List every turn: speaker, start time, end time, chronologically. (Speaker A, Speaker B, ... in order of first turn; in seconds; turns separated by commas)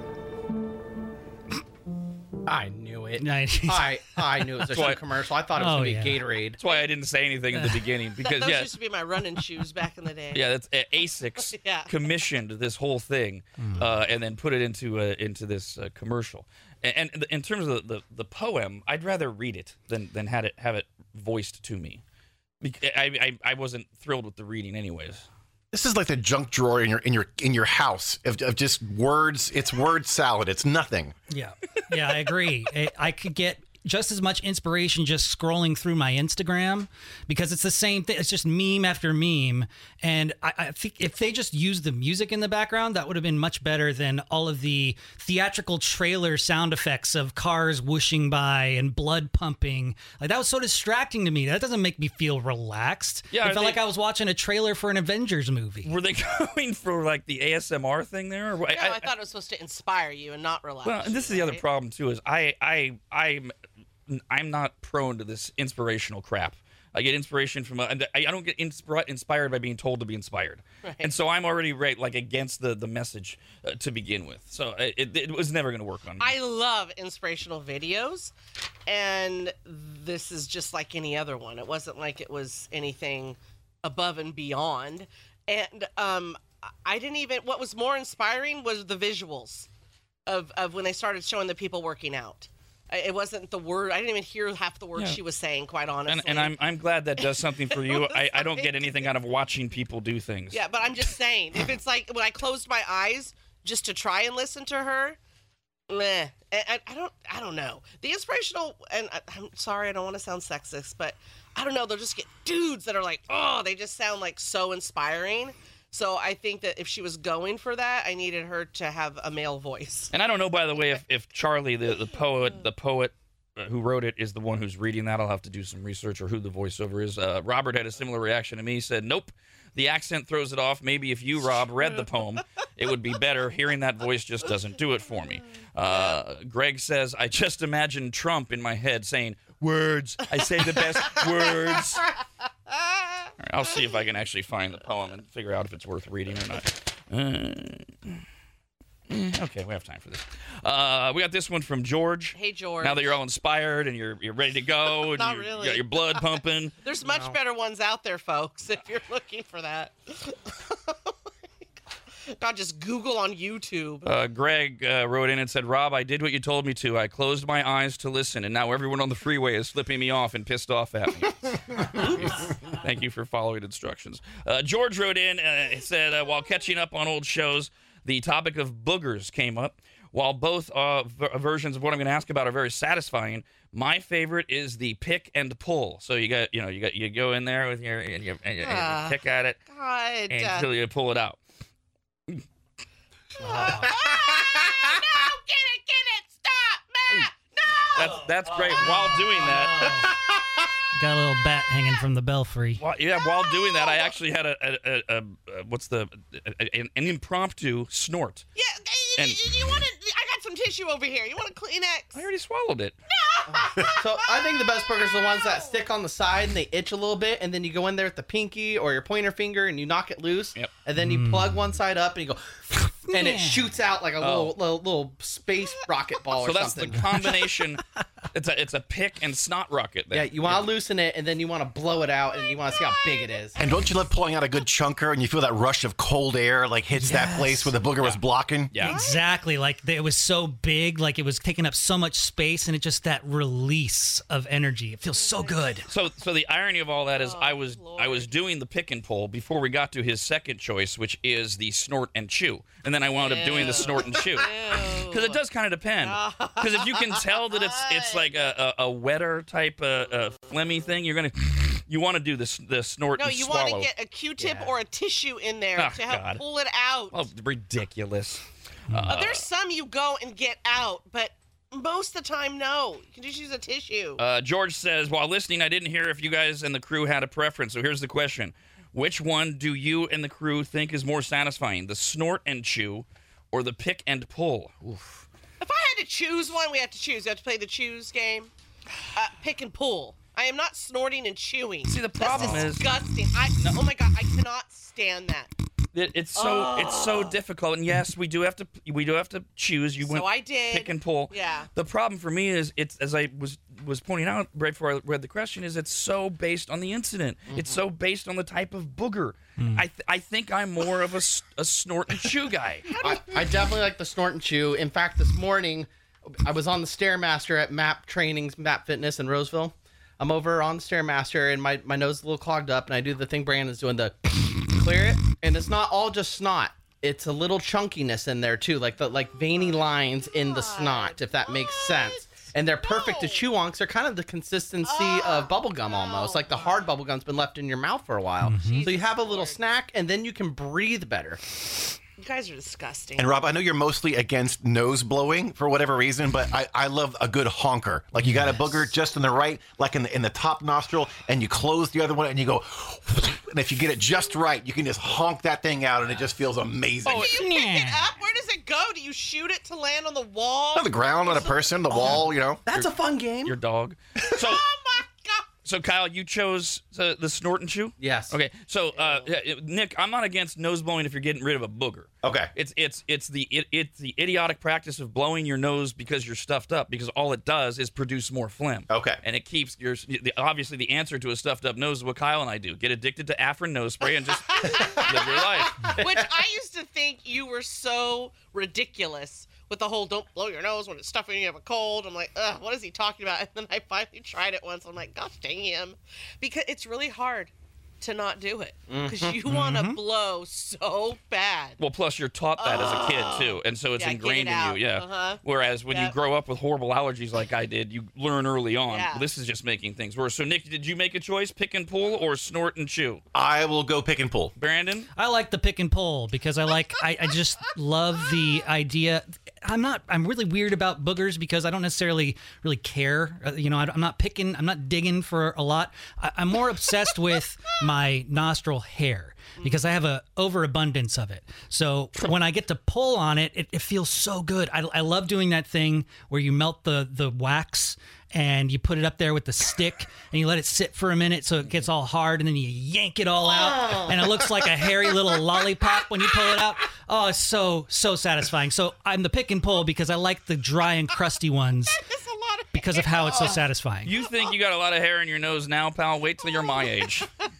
Speaker A: 2.5-6.6, Speaker B: 3.2-4.9, Speaker C: 4.7-5.0, Speaker B: 5.6-6.2, Speaker C: 6.6-8.8, Speaker B: 7.5-7.9, Speaker D: 8.2-10.5, Speaker C: 10.3-22.0, Speaker D: 11.4-11.9, Speaker B: 13.6-13.9, Speaker C: 22.6-25.2, Speaker E: 25.7-31.1, Speaker B: 31.3-55.9, Speaker C: 53.3-53.8, Speaker C: 55.9-59.1, Speaker D: 58.7-61.6, Speaker C: 60.8-63.5, Speaker C: 64.1-76.3, Speaker D: 70.8-71.1, Speaker D: 76.2-78.3, Speaker D: 78.9-89.7, Speaker D: 90.3-96.5, Speaker C: 96.1-100.6, Speaker D: 97.2-99.1, Speaker D: 100.5-105.2, Speaker D: 105.9-120.1, Speaker C: 120.1-142.1, Speaker C: 143.4-148.2, Speaker C: 149.1-156.8, Speaker D: 152.3-153.2, Speaker D: 155.0-161.1, Speaker A: 157.0-157.4, Speaker D: 162.3-164.1, Speaker C: 164.1-189.6, Speaker D: 188.6-190.7, Speaker C: 190.3-191.4, Speaker D: 193.4-198.2, Speaker B: 193.4-194.0, Speaker A: 193.6-193.9, Speaker C: 197.9-200.0, Speaker B: 198.0-200.2, Speaker B: 200.9-202.8, Speaker C: 202.8-208.4, Speaker D: 203.2-204.2, Speaker D: 208.6-212.2, Speaker C: 209.2-209.6, Speaker C: 212.2-213.0, Speaker D: 213.1-215.8, Speaker A: 213.5-222.5, Speaker B: 221.0-221.7, Speaker B: 222.7-223.7, Speaker A: 223.1-227.3, Speaker C: 224.2-224.6, Speaker C: 226.4-230.7, Speaker A: 230.1-233.6, Speaker D: 232.4-233.3, Speaker E: 233.6-238.7, Speaker B: 236.9-237.8, Speaker C: 238.7-239.0, Speaker B: 238.8-245.9, Speaker D: 238.8-239.3, Speaker D: 245.1-245.8, Speaker C: 245.9-263.9, Speaker D: 247.2-248.3, Speaker D: 253.2-255.4, Speaker D: 256.0-258.3, Speaker D: 263.2-267.2, Speaker A: 264.4-264.7, Speaker C: 265.8-266.4, Speaker C: 267.1-269.5, Speaker B: 268.9-269.2, Speaker D: 269.1-274.2, Speaker C: 274.2-285.3, Speaker D: 285.6-288.5, Speaker D: 289.1-295.5, Speaker C: 291.9-292.9, Speaker C: 295.9-312.9, Speaker D: 296.4-297.4, Speaker D: 300.0-301.7, Speaker A: 307.5-307.8, Speaker B: 309.6-309.9, Speaker D: 312.9-313.5, Speaker A: 313.0-341.4, Speaker D: 329.5-333.5, Speaker D: 334.8-336.9, Speaker B: 338.4-338.9, Speaker D: 338.6-339.6, Speaker D: 342.2-343.3, Speaker E: 343.2-357.4, Speaker B: 348.2-348.9, Speaker D: 357.1-361.8, Speaker B: 357.1-358.1, Speaker E: 360.7-362.6, Speaker A: 361.9-363.6, Speaker C: 363.4-364.7, Speaker D: 364.4-365.5, Speaker C: 365.6-386.0, Speaker A: 368.0-368.4, Speaker E: 372.2-372.5, Speaker E: 378.9-379.2, Speaker D: 384.5-401.8, Speaker A: 398.9-399.4, Speaker B: 399.5-400.0, Speaker C: 401.8-413.2, Speaker D: 402.6-406.1, Speaker D: 408.9-409.2, Speaker E: 413.3-414.5, Speaker C: 414.6-415.1, Speaker B: 415.2-452.1, Speaker D: 451.9-453.6, Speaker B: 452.7-454.1, Speaker C: 454.1-457.3, Speaker D: 456.6-456.9